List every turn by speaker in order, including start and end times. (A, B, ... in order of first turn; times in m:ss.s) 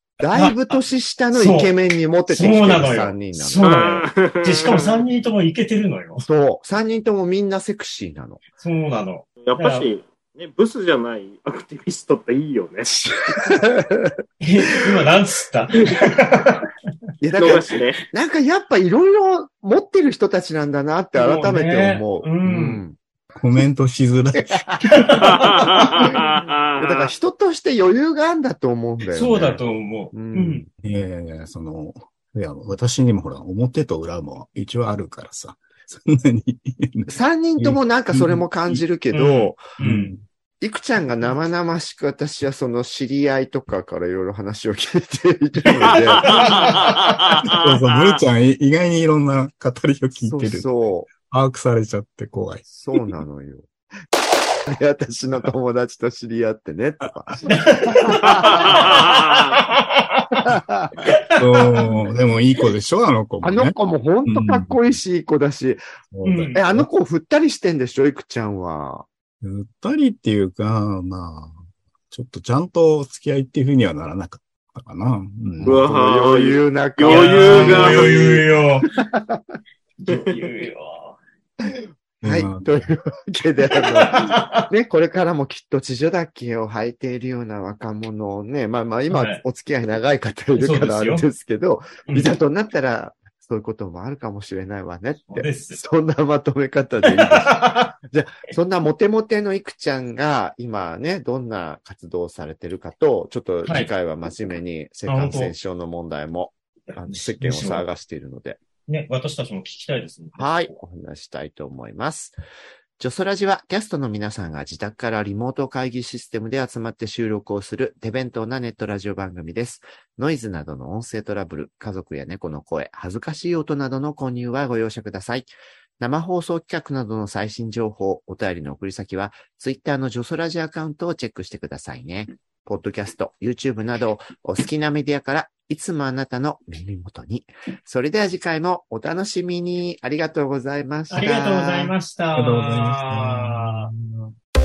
0:00.2-0:04.0 A
0:00.3-0:00.6 B
0:01.3-0:01.7 B
0:02.3-0:06.3 B
0:03.6-0:05.0 C
0:06.2-0:08.4 A
0:08.6-0:09.9 B
0:09.4-0:13.4 C
0:13.3-0:14.1 A
0:14.4-0:16.7 B
0:17.2-0:23.0 A
0:17.4-0:18.0 C
0:21.1-0:22.8 B
0:23.3-0:26.0 D
0:24.5-0:24.8 A
0:24.9-0:25.3 B
0:25.2-0:27.1 C
0:26.1-0:29.6 A
0:29.1-0:30.6 B
0:30.1-0:30.7 A
0:30.8-0:38.8 D
0:37.1-0:39.6 A
0:39.1-0:40.1 B
0:39.8-0:40.2 D
0:40.6-0:46.3 A
0:46.2-0:46.7 B
0:46.2-0:46.9 D
0:46.2-0:48.0 C
0:47.4-0:53.0 D
0:50.3-0:51.1 A
0:52.7-0:53.7 A
0:54.7-0:58.9 A
0:57.5-1:00.3 B
0:58.5-0:59.5 C
1:00.4-1:00.9 A
1:01.0-1:02.0 B
1:01.4-1:03.7 D
1:03.4-1:05.8 A
1:04.2-1:04.9 D
1:06.1-1:06.9 D
1:06.2-1:06.6 B
1:06.5-1:09.0 A
1:09.4-1:15.8 D
1:15.6-1:19.6 A
1:15.6-1:18.3 C
1:17.0-1:18.9 B
1:20.0-1:21.2 B
1:21.6-1:48.6 A
1:22.2-1:22.9 D
1:23.8-1:24.7 B
1:29.1-1:29.4 B
1:30.6-1:31.2 B
1:35.3-1:35.8 B
1:37.2-1:37.9 B
1:43.6-1:43.9 B
1:45.0-1:45.5 B
1:47.0-1:47.8 B
1:48.9-1:50.7 B
1:50.4-1:52.4 A
1:53.0-2:21.9 A
2:21.1-2:23.9 B
2:22.3-2:24.3 D